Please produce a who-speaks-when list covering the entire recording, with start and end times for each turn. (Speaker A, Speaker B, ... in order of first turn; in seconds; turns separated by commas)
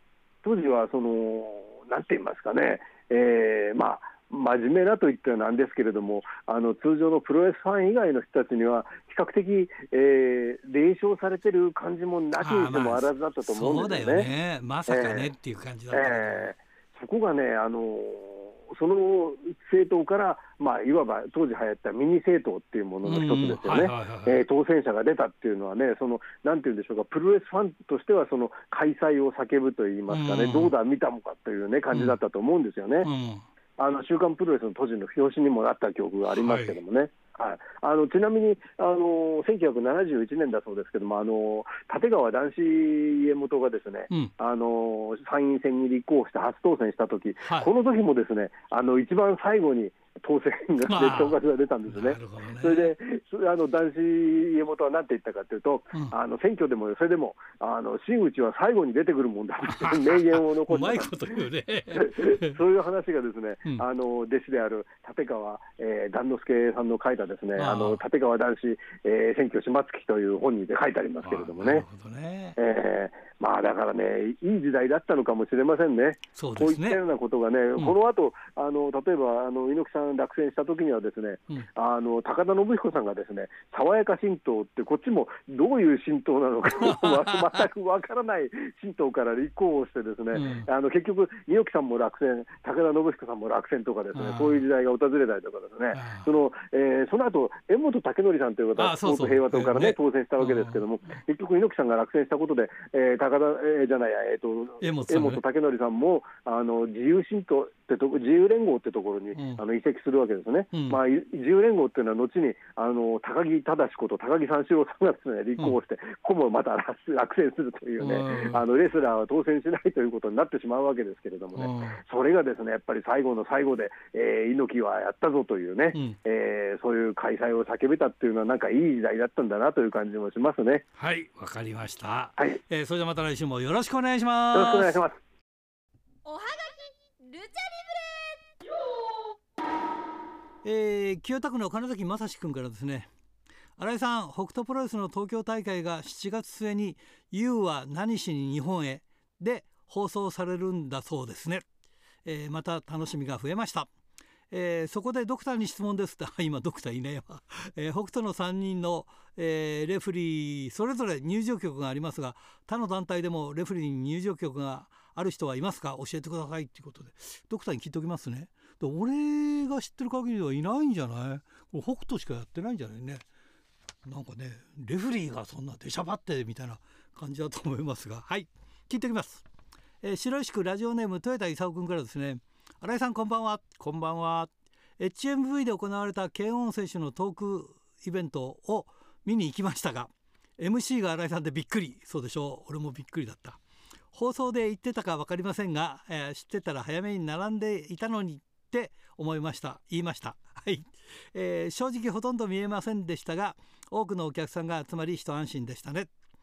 Speaker A: 0.4-14.3, Speaker B: 12.4-16.5, Speaker A: 14.9-15.3, Speaker A: 15.9-33.1, Speaker B: 23.1-24.4, Speaker B: 30.1-30.7, Speaker B: 31.9-32.2, Speaker B: 33.0-33.5, Speaker A: 33.8-61.4, Speaker B: 36.3-36.8, Speaker B: 47.4-47.7, Speaker B: 50.9-53.0, Speaker B: 59.7-62.6, Speaker A: 61.9-71.9, Speaker B: 67.6-68.0, Speaker B: 71.2-72.6, Speaker A: 72.6-130.8, Speaker B: 76.4-77.0, Speaker B: 86.8-87.3, Speaker B: 90.3-90.7, Speaker B: 94.2-94.6, Speaker B: 95.9-96.3, Speaker B: 98.8-100.8, Speaker B: 104.8-105.4, Speaker B: 109.3-109.6, Speaker B: 110.7-111.0, Speaker B: 118.0-118.6, Speaker B: 121.5-122.0, Speaker B: 131.0-135.0, Speaker A: 134.5-135.2, Speaker C: 136.3-138.3, Speaker B: 140.6-143.1, Speaker B: 143.8-151.7, Speaker B: 152.2-153.9, Speaker B: 154.5-173.2, Speaker B: 174.1-179.4, Speaker B: 180.0-193.6, Speaker B: 194.1-206.1